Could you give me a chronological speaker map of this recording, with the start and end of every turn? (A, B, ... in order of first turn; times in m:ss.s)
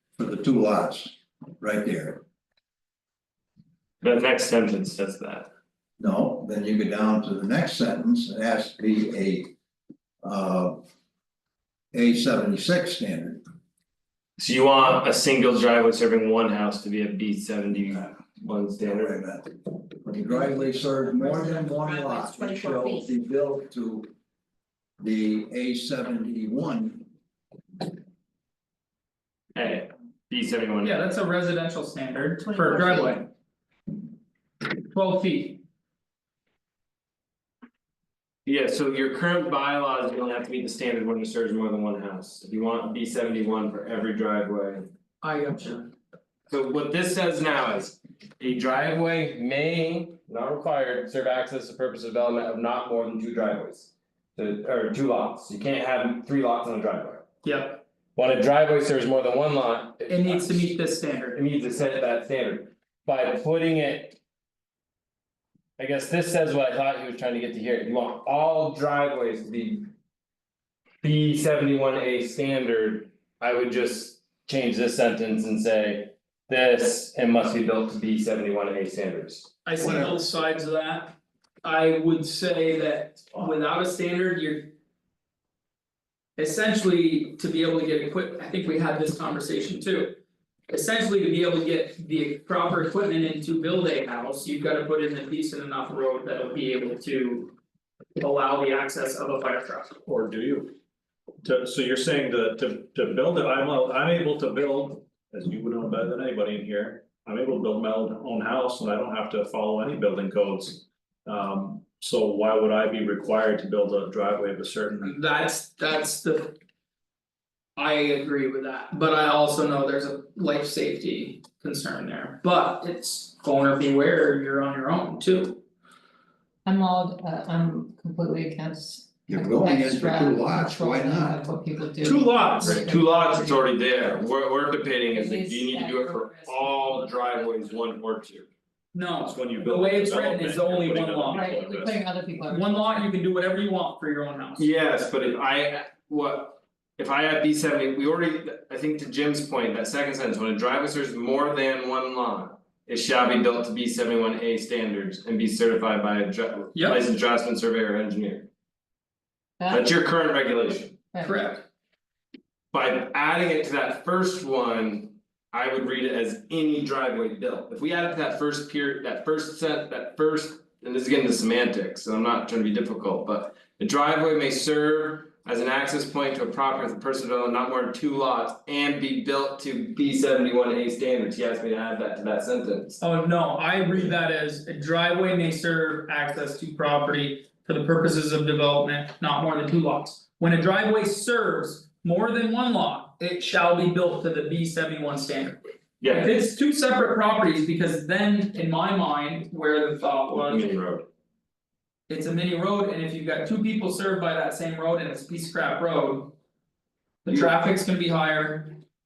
0:00.2-0:02.2 A
0:04.0-0:05.5 B
0:06.0-0:09.5 A
0:10.2-0:10.8 A
0:11.9-0:13.4 A
0:14.4-0:19.2 B
0:18.9-0:19.5 A
0:20.0-0:24.1 A
0:21.0-0:23.0 C
0:25.0-0:27.0 A
0:29.6-0:31.0 B
0:30.8-0:33.3 D
0:32.4-0:33.2 C
0:34.9-0:35.6 D
0:38.5-0:44.9 B
0:45.2-0:45.9 D
0:46.5-0:57.2 B
0:57.4-0:57.8 D
0:58.2-1:00.8 B
1:00.1-1:01.4 D
1:01.3-1:04.2 B
1:05.8-1:09.9 B
1:11.0-1:19.5 B
1:19.6-1:24.7 D
1:19.8-1:20.2 A
1:26.4-1:30.2 D
1:30.7-1:37.5 D
1:38.2-1:40.0 D
1:40.1-1:40.8 E
1:41.4-1:55.1 E
1:55.0-1:56.6 D
1:57.8-2:05.6 D
2:06.6-2:13.7 C
2:09.3-2:11.4 A
2:12.0-2:13.0 D
2:12.6-2:18.5 B
2:15.1-2:17.4 C
2:18.9-2:21.5 D
2:19.2-2:22.0 E
2:21.3-2:23.0 C
2:22.5-2:24.7 D
2:24.6-2:38.5 B
2:36.7-2:37.0 D
2:39.6-2:39.9 C
2:39.7-2:41.0 B
2:41.1-2:41.4 C
2:41.2-2:41.6 D
2:42.7-3:03.0 B
3:03.0-3:20.7 D
3:16.0-3:16.3 B
3:20.3-3:21.0 B
3:22.1-3:26.3 D
3:27.2-3:28.8 D